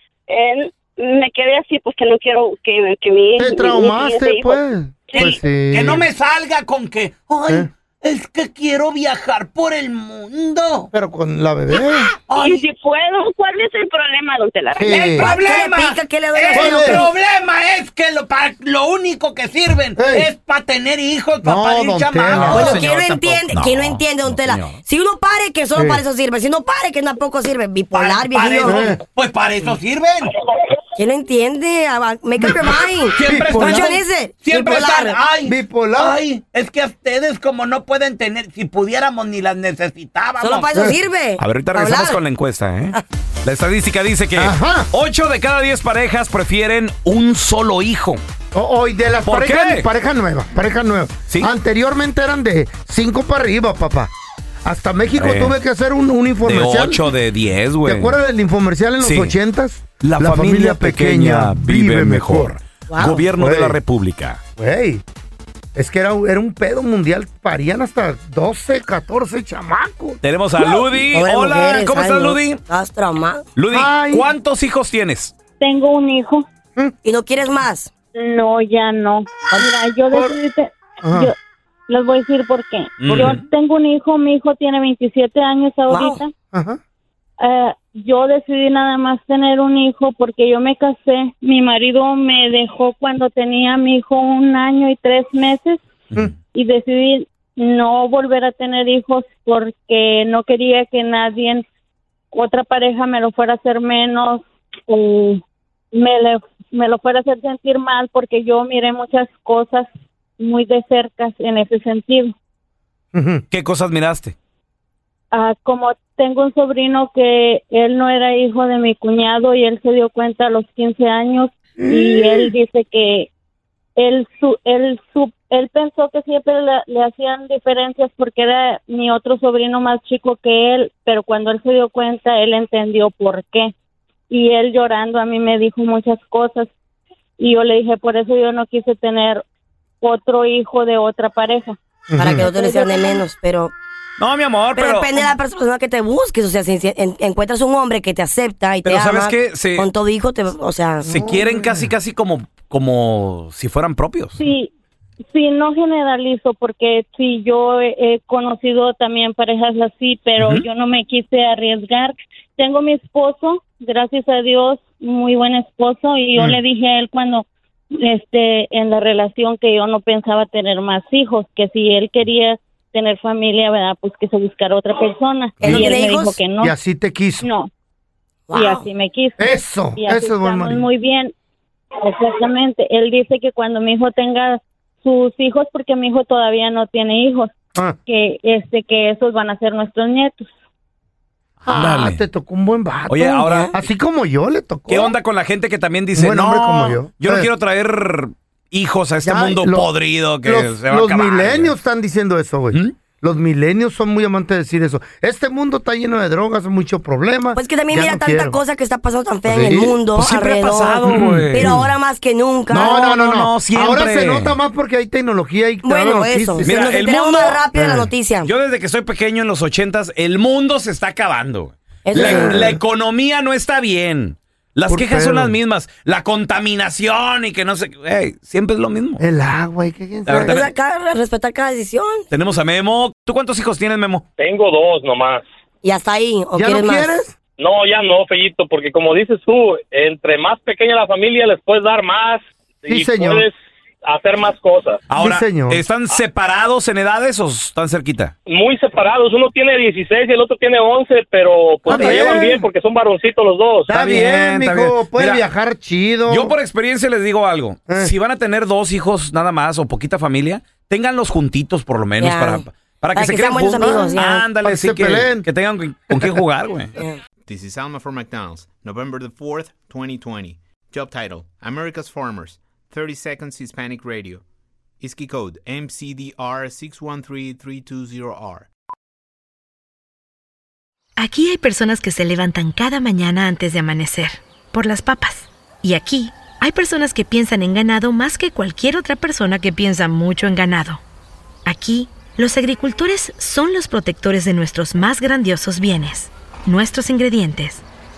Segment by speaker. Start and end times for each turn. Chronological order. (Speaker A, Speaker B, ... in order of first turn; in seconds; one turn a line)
Speaker A: 0.3-4.6
Speaker B: 3.4-6.1
Speaker C: 5.1-10.9
Speaker B: 10.9-12.1
Speaker C: 11.9-12.6
Speaker A: 12.3-15.3
Speaker B: 14.8-15.3
Speaker C: 14.9-23.0
Speaker D: 15.2-17.1
Speaker B: 16.5-17.0
Speaker B: 19.9-20.3
Speaker B: 21.4-22.8
Speaker D: 22.4-28.9
Speaker E: 22.8-24.8
Speaker B: 25.8-26.0
Speaker C: 27.9-30.3
Speaker B: 28.6-29.0
Speaker E: 29.1-29.8
Speaker D: 30.9-35.2
Speaker C: 33.2-40.8
Speaker B: 33.2-33.9
Speaker B: 35.4-36.2
Speaker E: 36.7-37.9
Speaker D: 40.4-42.2
Speaker E: 41.4-48.2
Speaker B: 44.4-44.9
Speaker B: 48.5-54.1
Speaker E: 49.2-49.9
Speaker B: 54.6-57.0
Speaker E: 55.1-55.6
Speaker E: 56.4-58.2
Speaker B: 57.8-62.6
Speaker E: 59.0-59.4
Speaker E: 60.0-64.4
Speaker D: 62.9-63.2
Speaker B: 63.2-63.8
Speaker B: 64.6-65.0
Speaker B: 65.7-70.2
Speaker E: 70.2-72.6
Speaker D: 70.6-73.5
Speaker E: 73.5-75.3
Speaker B: 73.7-74.3
Speaker F: 75.6-76.5
Speaker D: 77.0-77.9
Speaker F: 78.1-81.3
Speaker B: 80.1-80.3
Speaker B: 81.0-81.3
Speaker F: 81.9-86.3
Speaker E: 83.0-83.4
Speaker D: 85.9-86.2
Speaker B: 86.5-86.8
Speaker F: 87.4-95.8
Speaker F: 96.5-101.6
Speaker F: 102.3-112.3
Speaker B: 113.1-113.4
Speaker E: 113.5-114.3
Speaker F: 115.3-123.3
Speaker B: 121.8-122.5
Speaker F: 124.0-133.7
Speaker F: 134.3-136.7
Speaker F: 137.4-139.4
Speaker F: 140.0-143.2
Speaker B: 142.1-142.5
Speaker D: 142.2-143.7
Speaker E: 144.2-145.2
Speaker D: 144.8-151.1
Speaker E: 148.8-149.9
Speaker E: 151.1-154.4
Speaker B: 151.2-151.9
Speaker F: 154.4-154.7
Speaker F: 155.3-176.7
Speaker E: 160.4-160.6
Speaker B: 175.6-175.9
Speaker D: 175.6-176.4
Speaker B: 176.6-177.5
Speaker F: 177.4-177.7
Speaker D: 178.5-178.9
Speaker F: 178.5-181.3
Speaker B: 179.4-180.8
Speaker F: 182.0-187.5
Speaker F: 188.1-190.5
Speaker E: 191.6-192.2
Speaker B: 191.7-195.1
Speaker E: 193.1-193.7
Speaker D: 193.5-193.7
Speaker E: 194.9-201.7
Speaker B: 196.1-197.5
Speaker B: 199.2-199.9
Speaker B: 200.4-208.6
Speaker D: 207.5-212.9
Speaker B: 209.4-210.0
Speaker E: 210.1-211.8
Speaker B: 211.1-211.9
Speaker B: 212.7-216.7
Speaker E: 212.8-214.6
Speaker D: 215.8-218.5
Speaker E: 216.6-217.7
Speaker B: 217.7-218.1
Speaker E: 218.4-229.2
Speaker D: 222.1-222.8
Speaker B: 222.1-222.8
Speaker B: 224.9-225.6
Speaker B: 229.2-230.6
Speaker E: 230.2-230.7
Speaker D: 230.3-232.2
Speaker E: 232.3-234.2
Speaker G: 234.4-235.4
Speaker D: 235.8-237.2
Speaker B: 236.5-237.3
Speaker G: 237.6-245.0
Speaker B: 242.8-243.5
Speaker E: 245.1-248.3
Speaker B: 245.1-245.8
Speaker G: 248.4-253.9
Speaker B: 251.9-252.7
Speaker B: 253.9-256.6
Speaker E: 253.9-255.4
Speaker E: 256.3-266.9
Speaker D: 262.2-264.5
Speaker B: 263.8-265.5
Speaker B: 266.1-266.4
Speaker H: 267.4-274.4
Speaker H: 275.0-278.7
Speaker I: 281.2-291.0
Speaker I: 291.6-297.8